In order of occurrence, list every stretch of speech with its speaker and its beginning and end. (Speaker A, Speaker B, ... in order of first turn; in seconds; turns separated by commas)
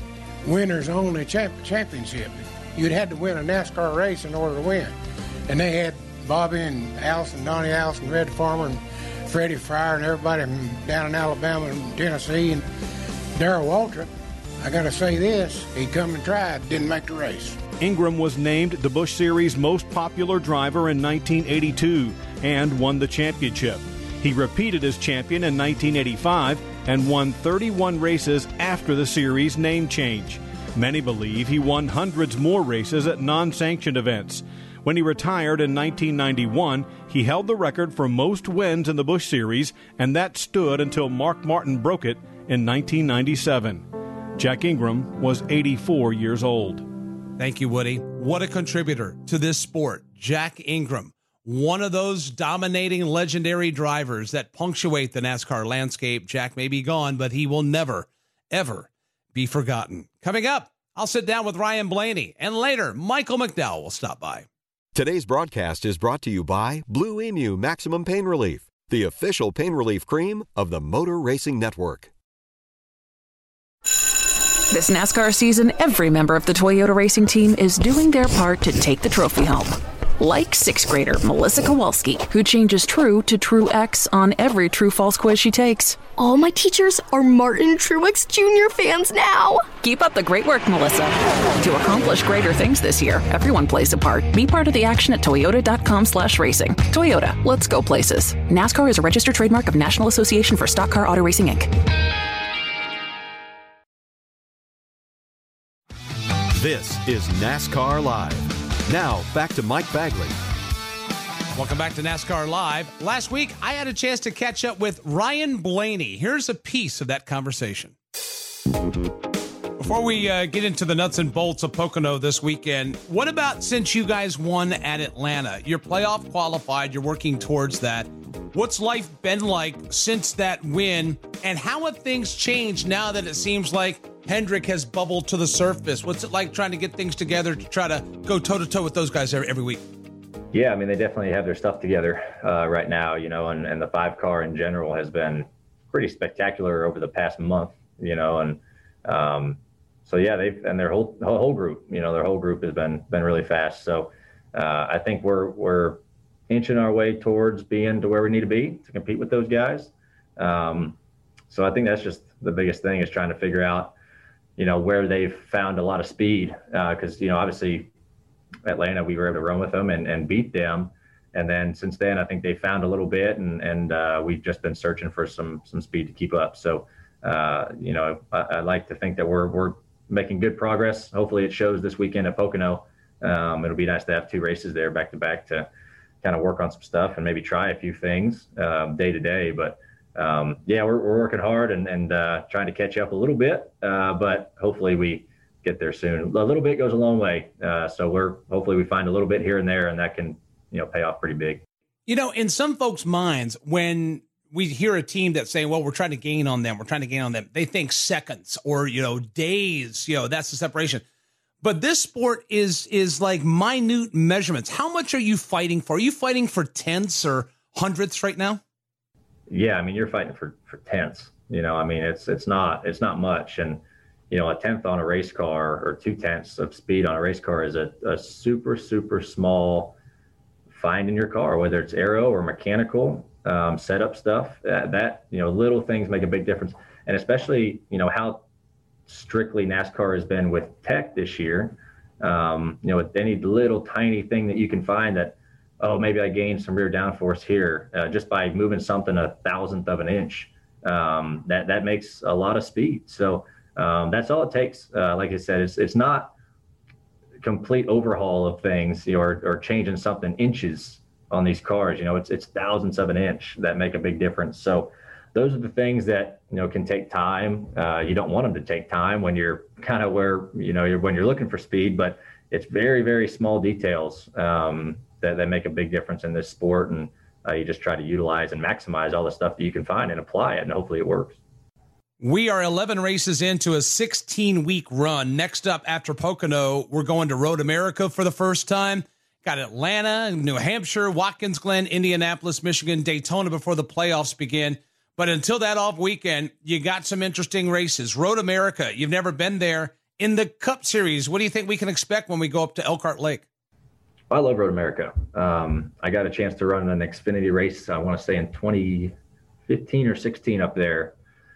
Speaker A: 0.4-4.9, Speaker A: 5.5-12.6, Speaker A: 13.3-14.1, Speaker A: 14.6-17.6, Speaker B: 17.8-46.9, Speaker C: 47.4-64.5, Speaker D: 64.9-72.1, Speaker E: 74.7-86.0, Speaker F: 86.1-89.7, Speaker E: 89.8-101.7, Speaker D: 106.6-110.4, Speaker C: 111.5-117.9, Speaker C: 119.8-139.8, Speaker G: 140.5-160.9, Speaker G: 161.5-163.9, Speaker G: 164.6-167.9, Speaker G: 168.7-185.7, Speaker G: 186.2-201.6, Speaker C: 202.1-211.0, Speaker C: 211.6-218.6, Speaker G: 219.5-229.9, Speaker G: 230.7-238.4, Speaker G: 239.1-256.3, Speaker G: 257.4-281.4, Speaker C: 282.2-303.4, Speaker G: 304.3-309.1, Speaker G: 309.7-311.1